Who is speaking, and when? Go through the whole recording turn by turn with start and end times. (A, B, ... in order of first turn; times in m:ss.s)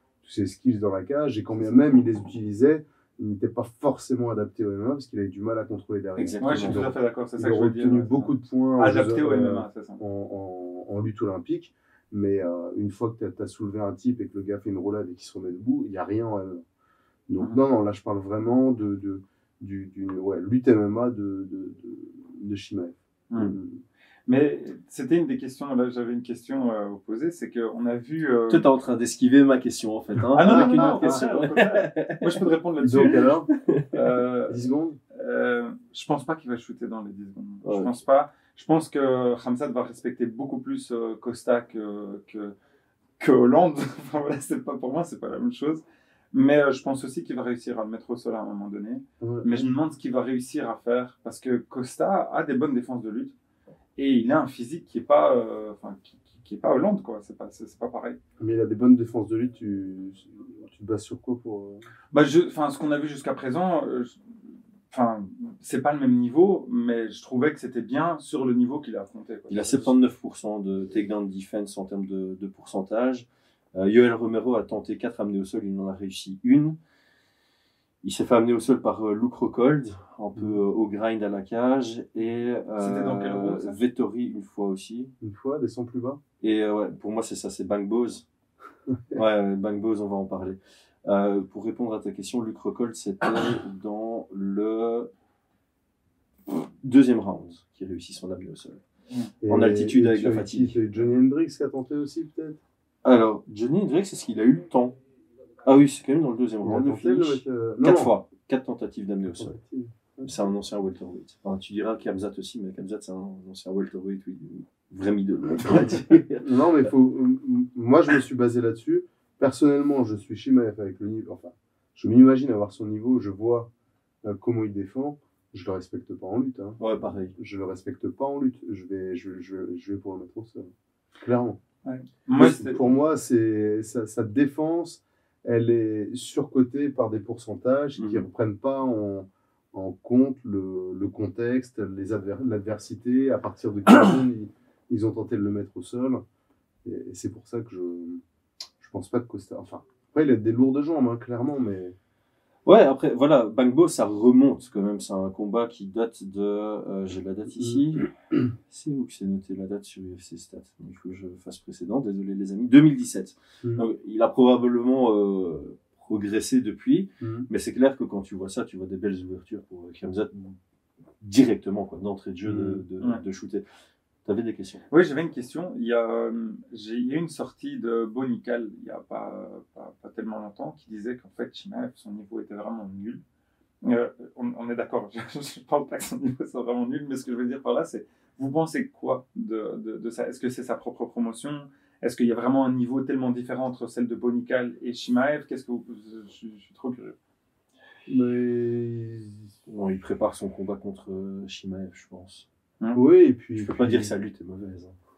0:00.2-0:16.6 A
0:06.2-0:06.9 B
0:06.4-0:10.0 C
0:17.3-0:23.8 A
0:23.3-0:23.6 C
0:24.3-0:28.7 C
0:28.5-0:32.4 B
0:30.3-0:33.3 C
0:30.4-0:31.2 A
0:32.8-0:33.5 A
0:33.5-0:33.9 B
0:33.9-0:42.5 C
0:34.5-0:35.0 A
0:37.6-0:38.0 B
0:43.2-0:53.3 C
0:49.2-0:49.6 A
0:54.0-0:58.2 C
0:58.4-1:01.8 A
1:02.1-1:04.4 C
1:04.9-1:09.9 C
1:09.5-1:16.8 B
1:18.0-1:25.1 B
1:20.3-1:20.6 A
1:22.8-1:23.8 C
1:25.2-1:26.2 A
1:26.4-1:28.2 B
1:29.1-1:35.1 B
1:36.8-1:38.8 B
1:39.4-1:42.6 A
1:39.5-1:40.8 B
1:43.0-1:45.0 B
1:45.6-1:49.5 B
1:46.6-1:48.1 A
1:49.3-1:50.3 A
1:50.2-1:56.8 B
1:55.7-2:03.7 A
2:04.2-2:06.8 A
2:06.8-2:07.3 B
2:07.3-2:11.6 A
2:11.8-2:12.8 C
2:12.3-2:26.2 A
2:18.0-2:18.2 B
2:26.8-2:28.2 A
2:28.8-2:32.0 A
2:32.6-2:38.1 B
2:38.7-2:50.6 B
2:47.2-2:47.5 A
2:51.2-2:53.6 B
2:52.4-2:52.8 A
2:54.2-2:54.8 B
2:54.9-3:03.2 C
3:03.8-3:17.2 C
3:18.1-3:19.5 A
3:19.7-3:22.4 B
3:22.9-3:24.1 A
3:23.6-3:25.0 B